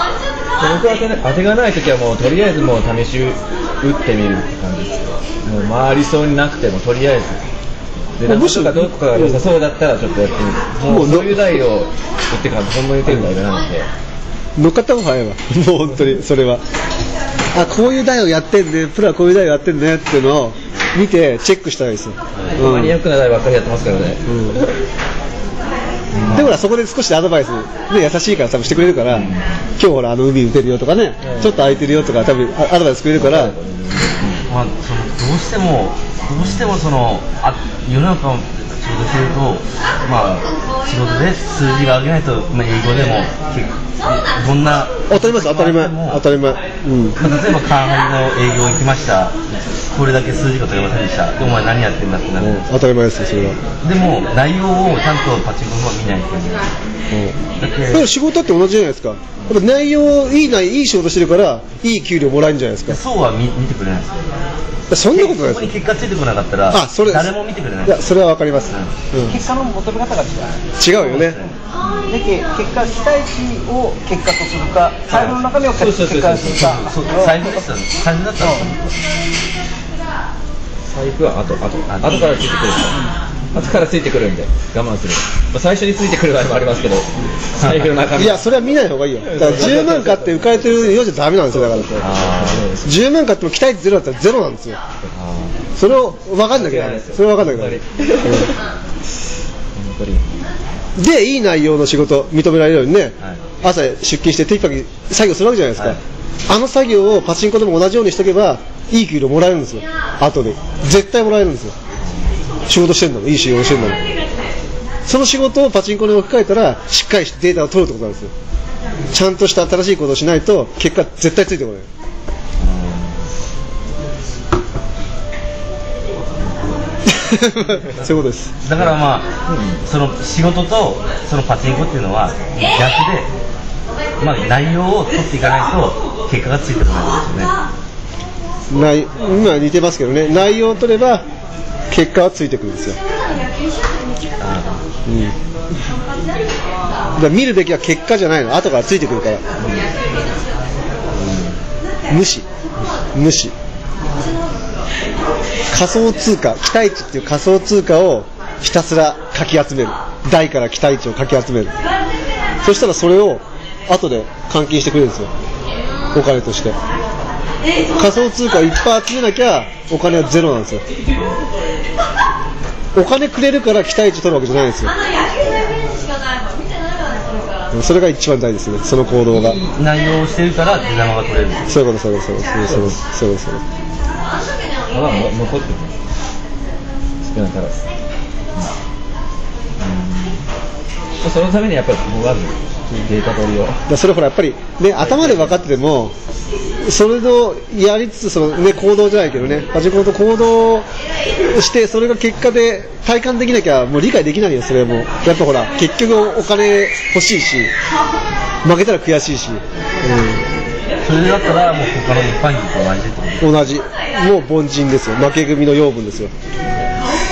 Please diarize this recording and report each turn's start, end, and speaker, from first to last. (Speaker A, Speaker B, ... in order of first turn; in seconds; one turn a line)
Speaker A: 0.6-7.4
Speaker A: 8.2-13.9
Speaker B: 8.2-9.4
Speaker B: 10.8-11.6
Speaker B: 13.1-13.3
Speaker B: 14.6-16.6
Speaker B: 17.5-23.0
Speaker C: 22.4-22.6
Speaker A: 22.6-24.7
Speaker B: 24.3-24.6
Speaker A: 26.1-26.6
Speaker B: 26.3-33.5
Speaker C: 26.3-26.6
Speaker A: 29.1-29.5
Speaker A: 31.2-32.2
Speaker A: 33.1-34.5
Speaker C: 34.5-46.4
Speaker A: 36.4-36.8
Speaker B: 45.1-47.2
Speaker C: 47.2-49.4
Speaker C: 49.9-52.7
Speaker B: 52.4-53.6
Speaker C: 53.8-56.7
Speaker B: 57.1-57.4
Speaker C: 57.6-58.1
Speaker B: 57.9-63.0
Speaker C: 62.9-64.1
Speaker B: 64.9-65.7
Speaker C: 65.1-68.0
Speaker B: 66.7-67.3
Speaker B: 67.8-69.4
Speaker D: 69.3-70.6
Speaker B: 70.8-71.4
Speaker C: 70.9-71.9
Speaker D: 72.1-77.5
Speaker C: 75.1-75.4
Speaker A: 75.1-76.8
Speaker C: 76.5-79.0
Speaker D: 78.4-78.7
Speaker A: 80.9-83.0
Speaker C: 81.9-82.4
Speaker A: 83.5-88.5
Speaker C: 87.6-87.9
Speaker B: 88.1-92.0
Speaker A: 89.2-93.0
Speaker C: 92.0-92.7
Speaker B: 92.8-94.8
Speaker C: 95.2-95.5
Speaker B: 95.8-98.5
Speaker A: 96.5-98.5
Speaker A: 99.8-100.2
Speaker B: 101.0-106.0
Speaker B: 106.5-111.8
Speaker C: 112.0-112.3
Speaker B: 112.7-114.0
Speaker B: 115.1-118.3
Speaker B: 119.1-121.9
Speaker C: 122.6-123.3
Speaker B: 127.1-128.5
Speaker C: 127.8-129.3
Speaker A: 129.5-129.8
Speaker C: 129.8-133.3
Speaker C: 134.2-137.6
Speaker B: 138.7-141.2
Speaker B: 141.9-143.0
Speaker C: 144.4-144.8
Speaker B: 145.1-145.3
Speaker B: 147.2-149.4
Speaker A: 149.6-149.9
Speaker B: 152.1-152.5
Speaker B: 153.2-153.5
Speaker B: 155.7-161.7
Speaker B: 162.6-165.3
Speaker B: 166.1-166.8
Speaker B: 168.0-170.8
Speaker B: 172.9-174.9
Speaker B: 177.7-179.6
Speaker C: 179.3-181.7
Speaker B: 181.7-183.6
Speaker A: 182.6-183.0
Speaker A: 184.9-186.0
Speaker A: 187.2-187.8
Speaker A: 189.8-190.4
Speaker A: 191.2-193.8
Speaker B: 193.9-196.1
Speaker A: 195.0-195.7
Speaker B: 196.8-200.9
Speaker B: 201.5-207.7
Speaker B: 208.6-210.4
Speaker C: 211.0-213.6
Speaker B: 213.4-216.3